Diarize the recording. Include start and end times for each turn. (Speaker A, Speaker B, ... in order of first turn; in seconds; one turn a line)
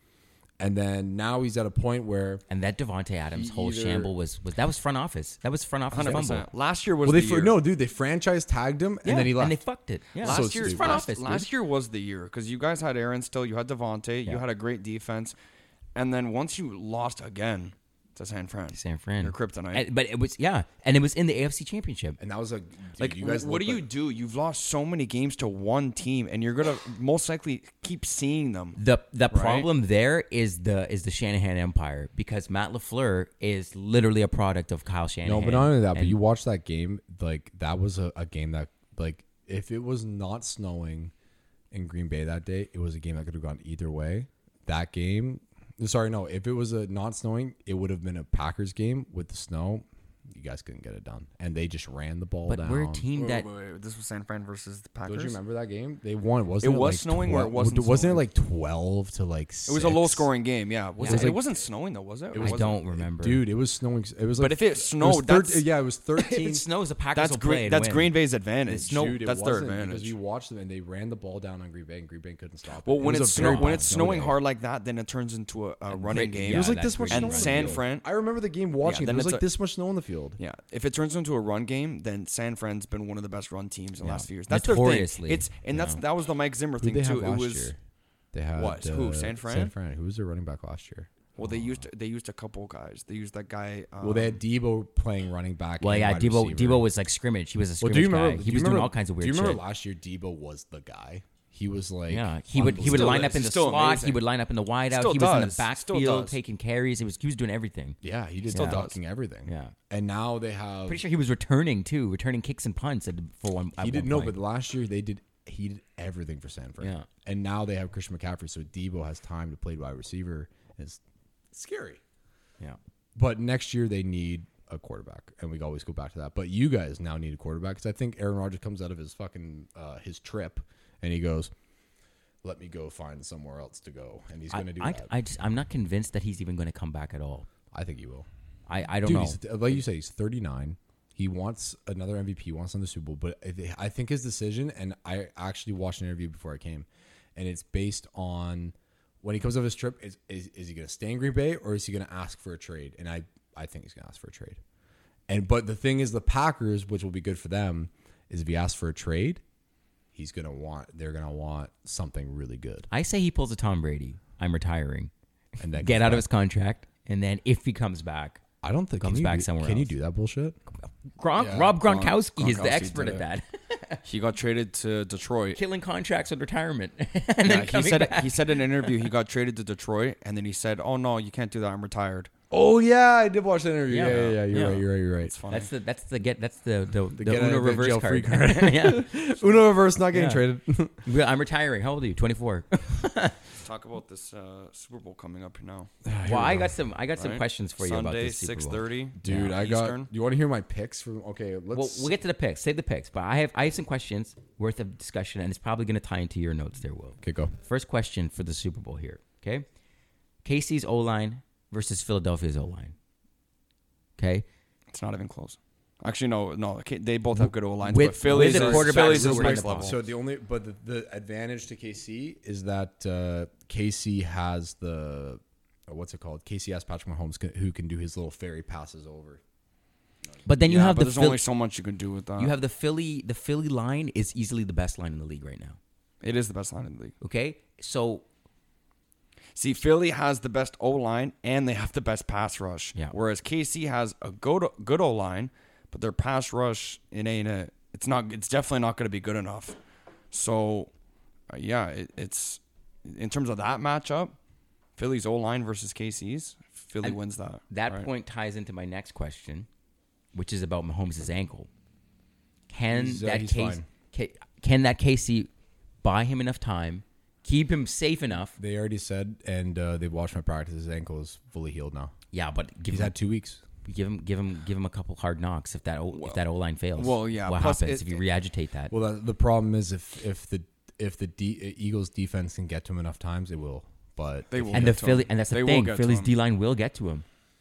Speaker A: 0.6-2.4
Speaker B: 2.5-6.5
Speaker A: 3.3-4.1
Speaker C: 5.9-7.6
Speaker A: 7.0-9.6
Speaker B: 9.0-11.5
Speaker C: 10.2-15.3
Speaker A: 10.2-11.1
Speaker C: 15.9-19.9
Speaker B: 18.7-22.2
Speaker A: 22.2-23.9
Speaker C: 23.0-28.8
Speaker B: 28.8-36.2
Speaker C: 29.3-29.7
Speaker A: 35.2-41.1
Speaker A: 41.7-53.1
Speaker B: 52.5-53.5
Speaker C: 53.1-55.4
Speaker A: 55.1-60.3
Speaker C: 56.6-58.2
Speaker C: 59.7-62.8
Speaker B: 61.0-61.4
Speaker A: 61.0-61.5
Speaker A: 62.3-66.7
Speaker B: 62.4-63.4
Speaker C: 64.4-65.7
Speaker B: 66.2-68.2
Speaker C: 67.2-70.1
Speaker B: 68.7-69.2
Speaker A: 68.7-74.4
Speaker C: 72.8-78.1
Speaker B: 73.0-73.9
Speaker B: 75.9-77.8
Speaker A: 76.5-80.4
Speaker C: 78.8-79.5
Speaker C: 80.4-87.7
Speaker B: 84.0-86.0
Speaker A: 86.8-87.8
Speaker A: 88.3-91.1
Speaker C: 88.6-89.7
Speaker C: 91.4-94.4
Speaker A: 94.0-96.9
Speaker B: 95.8-99.6
Speaker A: 97.8-103.3
Speaker B: 102.1-108.0
Speaker C: 102.7-104.2
Speaker C: 104.9-106.4
Speaker A: 108.0-111.0
Speaker B: 108.5-108.9
Speaker C: 108.5-109.0
Speaker B: 109.5-109.7
Speaker B: 110.9-114.4
Speaker A: 113.8-121.0
Speaker B: 116.8-117.1
Speaker A: 121.5-122.0
Speaker A: 123.2-131.5
Speaker A: 132.4-135.1
Speaker B: 134.5-137.5
Speaker A: 137.7-138.3
Speaker B: 138.7-139.4
Speaker A: 139.0-154.6
Speaker A: 155.3-159.4
Speaker A: 160.1-162.9
Speaker B: 162.9-165.1
Speaker A: 165.6-166.2
Speaker B: 165.8-168.4
Speaker A: 168.6-170.6
Speaker B: 169.0-169.9
Speaker B: 171.2-174.0
Speaker A: 171.4-171.7
Speaker C: 171.5-173.2
Speaker C: 174.1-175.6
Speaker B: 175.6-178.6
Speaker C: 177.4-182.3
Speaker A: 182.5-185.3
Speaker B: 183.9-184.8
Speaker C: 184.0-184.7
Speaker C: 185.2-185.7
Speaker B: 185.5-189.2
Speaker A: 187.1-191.1
Speaker B: 190.1-190.4
Speaker B: 191.0-193.4
Speaker C: 193.5-195.9
Speaker A: 196.1-196.7
Speaker B: 196.2-199.6
Speaker C: 197.2-200.1
Speaker A: 199.2-202.1
Speaker B: 201.7-209.7
Speaker A: 207.2-207.5
Speaker B: 210.4-212.9
Speaker B: 214.2-214.5
Speaker C: 214.9-220.0
Speaker B: 217.9-220.0
Speaker A: 218.2-229.4
Speaker B: 230.4-231.4
Speaker C: 230.6-232.6
Speaker B: 232.4-235.8
Speaker C: 236.2-237.2
Speaker B: 237.2-238.2
Speaker C: 239.6-249.8
Speaker C: 250.3-250.9
Speaker C: 251.5-254.3
Speaker C: 255.0-258.1
Speaker B: 257.7-259.7
Speaker B: 260.3-261.7
Speaker B: 262.7-265.5
Speaker A: 262.9-263.9
Speaker B: 266.0-268.6
Speaker A: 268.6-272.1
Speaker B: 272.3-273.1
Speaker A: 272.9-273.6
Speaker B: 273.9-278.9
Speaker C: 276.1-276.4
Speaker C: 277.0-278.2
Speaker A: 278.9-285.0
Speaker C: 284.5-286.3
Speaker B: 284.7-287.2